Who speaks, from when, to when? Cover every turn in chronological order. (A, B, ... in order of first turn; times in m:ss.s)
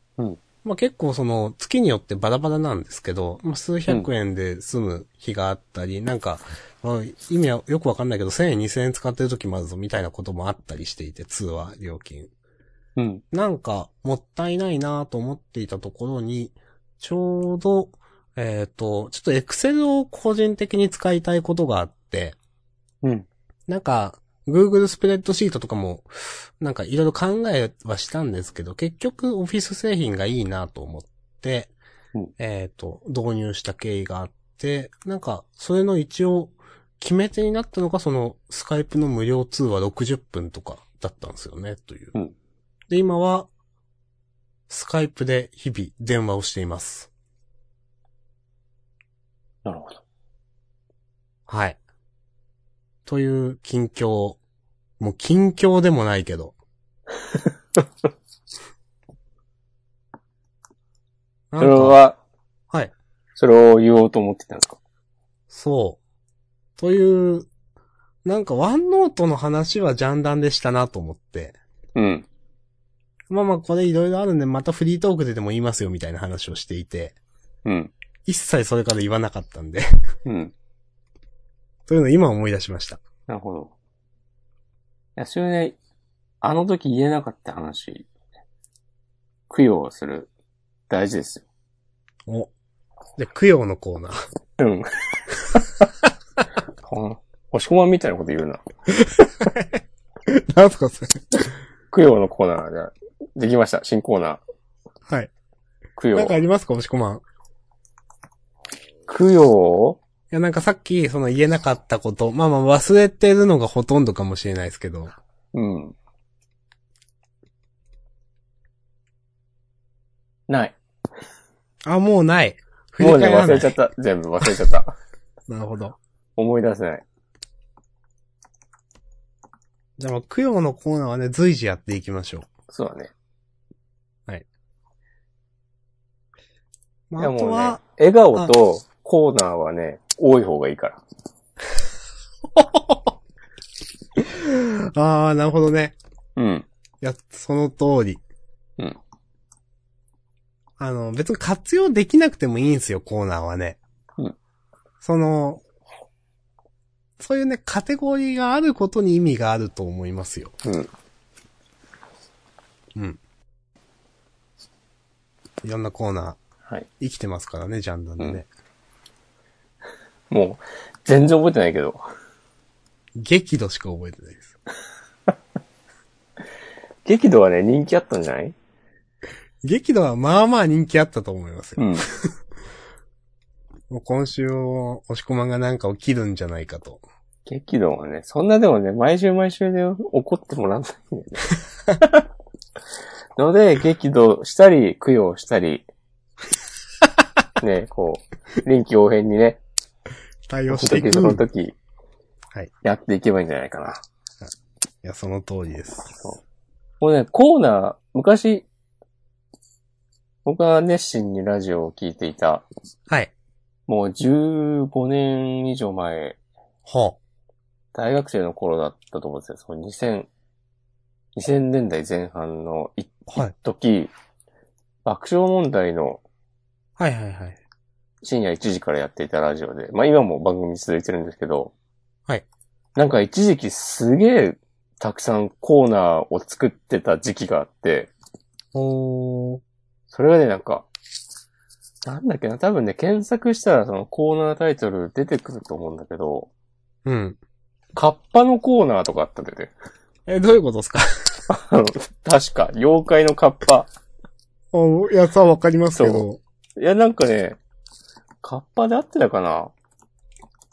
0:00.6-0:12.3 A
0:13.0-0:13.2 B
0:13.3-0:22.4 A
0:23.7-0:31.7 A
0:32.4-0:42.1 A
0:42.9-0:43.5 A
0:44.7-0:47.1 A
0:49.6-0:50.0 B
0:51.5-0:51.8 A
0:53.0-0:54.4 A
0:55.0-0:56.5 A
1:01.5-1:02.0 A
1:01.6-1:02.2 B
1:03.4-1:04.8 B
1:05.5-1:06.0 A
1:06.8-1:07.5 A
1:08.2-1:11.5 A
1:11.9-1:12.3 B
1:13.3-1:17.1 A
1:17.6-1:17.9 B
1:18.2-1:19.9 A
1:20.2-1:20.5 B
1:21.9-1:23.0 A
1:23.3-1:23.7 B
1:25.2-1:25.8 B
1:26.4-1:28.1 B
1:29.5-1:30.3 B
1:30.9-1:31.4 B
1:33.2-1:34.2 A
1:34.6-1:35.3 B
1:36.8-1:38.6 B
1:39.0-1:41.5 A
1:41.9-1:44.4 B
1:46.0-1:46.4 B
1:46.1-1:47.2 A
1:49.1-1:50.0 B
1:50.3-1:55.1 A
1:55.5-1:55.9 B
2:00.5-2:00.8 B
2:01.8-2:03.8 A
2:03.0-2:04.9 B
2:05.5-2:06.0 A
2:06.4-2:07.0 B
2:10.0-2:12.5 A
2:12.7-2:13.1 B
2:17.1-2:17.8 A
2:17.2-2:21.0 B
2:22.5-2:23.1 A
2:24.2-2:26.0 A
2:26.4-2:26.7 B
2:27.0-2:28.2 A
2:30.8-2:33.8 A
2:35.0-2:35.6 A
2:37.2-2:40.5 A
2:40.6-2:40.9 B
2:45.6-2:46.4 A
2:47.0-2:48.5 A
2:50.3-2:52.0 B
2:53.2-2:54.5 A
2:57.0-2:58.5 B
2:59.6-3:02.3 A
3:01.8-3:02.0 B
3:03.9-3:07.0 A
3:07.4-3:12.1 B
3:13.4-3:15.8 B
3:17.6-3:19.6 B
3:20.5-3:21.4 A
3:20.7-3:21.7 B
3:22.8-3:24.0 B
3:25.0-3:26.2 A
3:27.0-3:28.6 B
3:30.4-3:32.6 B
3:33.9-3:36.4 B
3:36.8-3:37.2 A
3:37.9-3:40.3 B
3:41.3-3:44.1 B
3:45.0-3:46.2 B
3:47.0-3:47.6 A
3:48.2-3:51.7 B
3:53.0-3:58.1 B
3:58.7-3:59.6 A
4:00.1-4:00.9 B
4:02.0-4:06.5 B
4:07.0-4:07.4 A
4:07.9-4:09.7 B
4:10.3-4:11.4 A
4:11.5-4:13.9 B
4:14.7-4:16.4 A
4:16.0-4:16.2 B
4:16.8-4:17.6 B
4:18.4-4:19.7 B